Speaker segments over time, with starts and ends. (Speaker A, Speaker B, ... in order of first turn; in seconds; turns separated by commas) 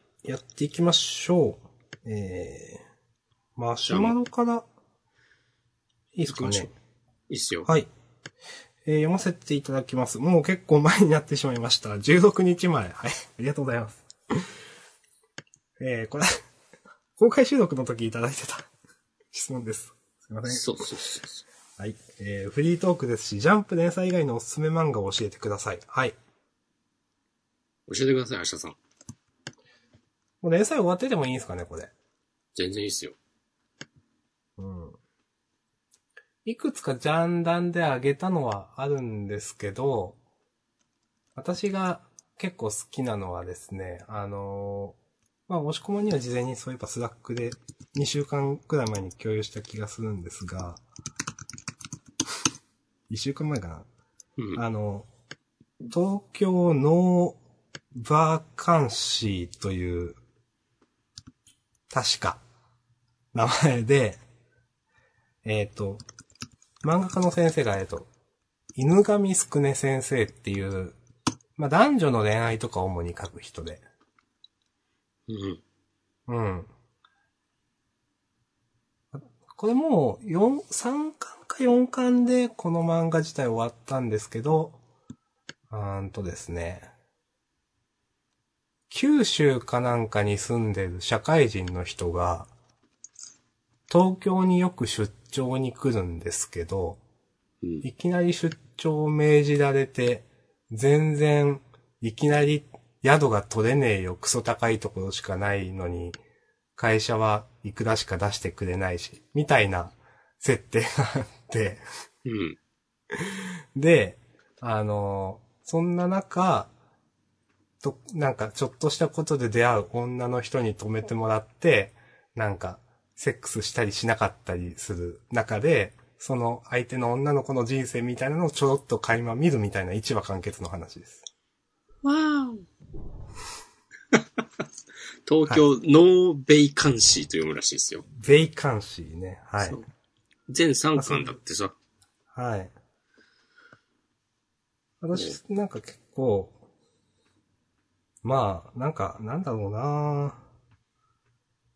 Speaker A: 0.2-2.8, Speaker A: 3.5-4.7, Speaker B: 3.8-4.2, Speaker A: 6.1-6.7, Speaker B: 6.3-6.7, Speaker B: 7.3-7.7, Speaker A: 8.8-14.4, Speaker A: 15.8-16.3, Speaker A: 17.2-18.7, Speaker A: 19.3-20.8, Speaker B: 20.4-21.4, Speaker A: 21.8-26.2, Speaker B: 27.9-28.8, Speaker A: 30.4-31.9, Speaker B: 32.5-33.2, Speaker A: 34.6-35.0, Speaker A: 36.4-40.2, Speaker A: 41.3-45.0, Speaker A: 45.5-50.8, Speaker A: 53.1-53.9, Speaker A: 54.5-55.1, Speaker A: 55.9-57.4, Speaker A: 57.9-60.2, Speaker A: 61.9-62.4, Speaker A: 63.3-64.2, Speaker A: 65.4-66.0, Speaker A: 66.8-68.1, Speaker A: 68.7-71.0, Speaker A: 71.6-73.8, Speaker B: 75.3-75.6, Speaker A: 76.3-76.7, Speaker A: 79.1-84.8, Speaker A: 85.7-86.9, Speaker A: 88.9-92.5, Speaker A: 93.9-97.0, Speaker A: 97.8-106.2, Speaker A: 106.8-111.8, Speaker B: 112.2-112.6, Speaker A: 113.1-116.7, Speaker A: 117.8-131.2, Speaker B: 132.0-132.7, Speaker B: 134.1-134.4, Speaker B: 135.2-138.0, Speaker A: 138.2-139.8, Speaker B: 139.6-139.9, Speaker B: 140.5-141.8, Speaker A: 141.0-141.3, Speaker A: 142.3-142.7, Speaker A: 145.0-146.6, Speaker A: 148.2-150.4